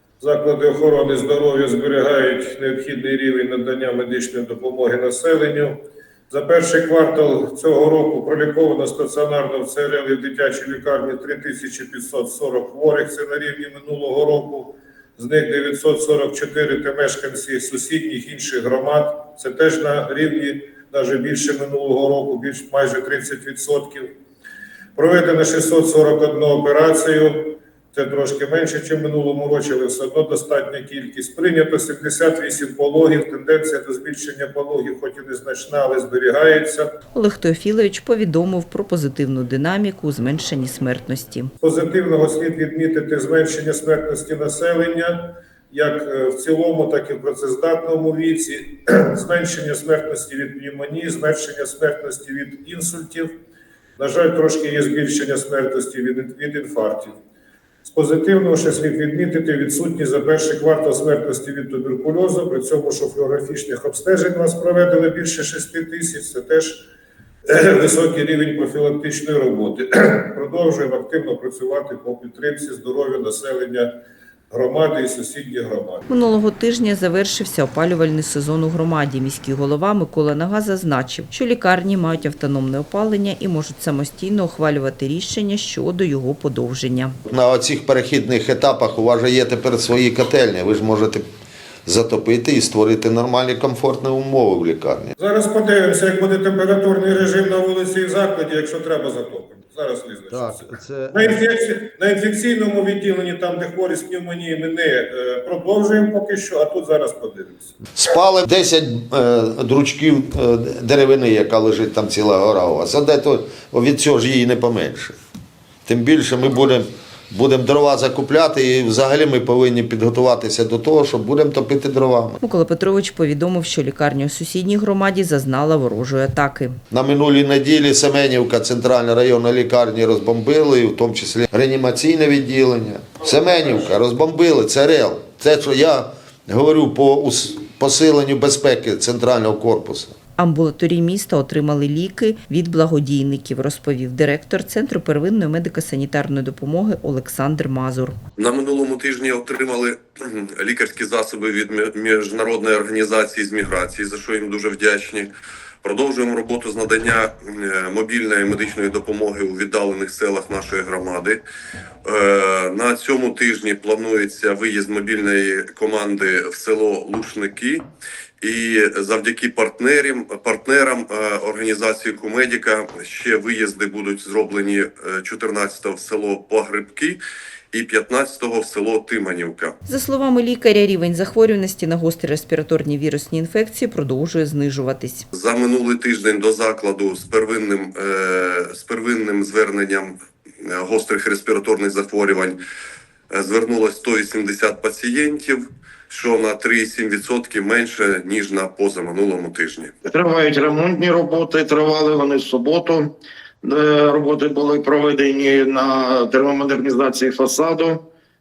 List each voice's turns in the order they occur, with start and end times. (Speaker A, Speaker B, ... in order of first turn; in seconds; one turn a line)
Speaker A: 0.2-5.8
Speaker A: 6.3-24.1
Speaker A: 24.9-36.9
Speaker B: 37.1-41.5
Speaker A: 41.6-53.3
Speaker A: 54.0-57.1
Speaker A: 57.9-66.9
Speaker A: 67.5-73.9
Speaker A: 74.5-76.0
Speaker B: 76.1-87.2
Speaker C: 87.3-91.2
Speaker C: 91.8-95.1
Speaker A: 95.2-107.7
Speaker C: 100.3-101.3
Speaker C: 107.9-115.2
Speaker C: 115.9-122.4
Speaker B: 122.4-126.8
Speaker C: 126.9-140.2
Speaker B: 140.4-148.2
Speaker D: 148.4-155.3
Speaker D: 155.8-161.4
Speaker D: 162.1-167.8
Speaker D: 168.4-177.2
Speaker D: 177.7-179.8
Speaker B: 179.8-185.3
Speaker D: 185.3-192.6
Speaker D: 193.3-199.9
Speaker E: 200.1-203.1
Speaker E: 203.6-208.0